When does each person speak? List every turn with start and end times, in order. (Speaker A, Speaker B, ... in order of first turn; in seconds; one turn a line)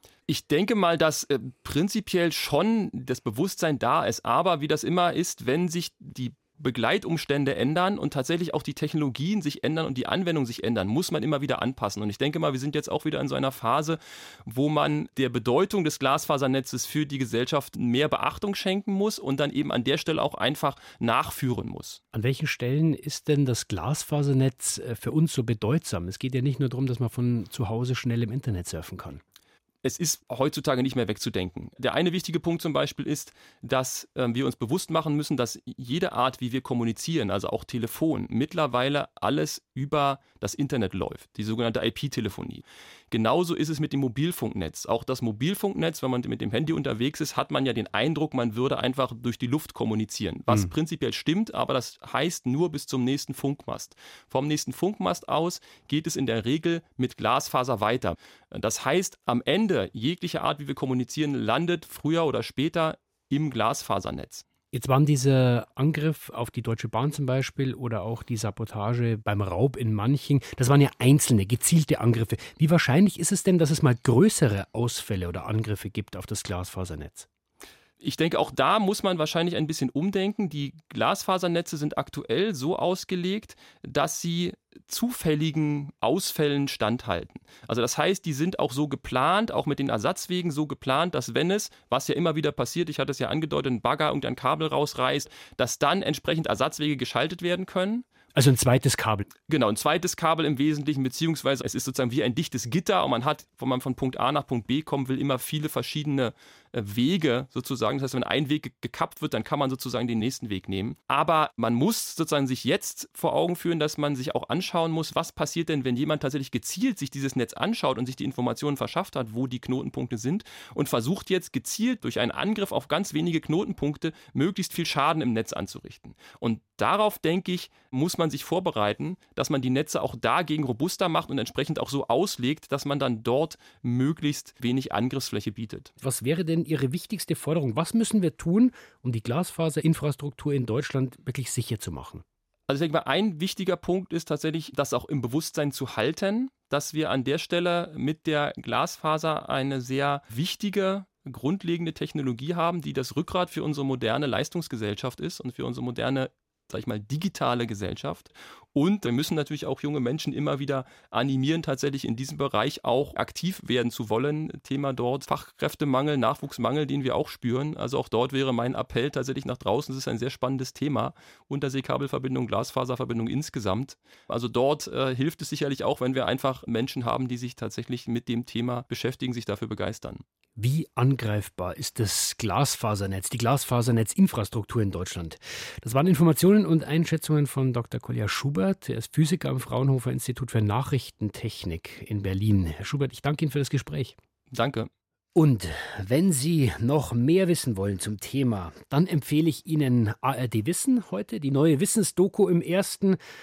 Speaker A: 0.3-22.0
Speaker B: 22.1-29.2
Speaker A: 29.8-64.4
Speaker B: 64.7-77.3
Speaker A: 78.0-98.0
Speaker B: 98.3-99.3
Speaker A: 99.5-135.9
Speaker B: 136.0-142.2
Speaker A: 142.7-180.2
Speaker B: 180.6-194.1
Speaker A: 194.5-194.9
Speaker B: 195.3-203.2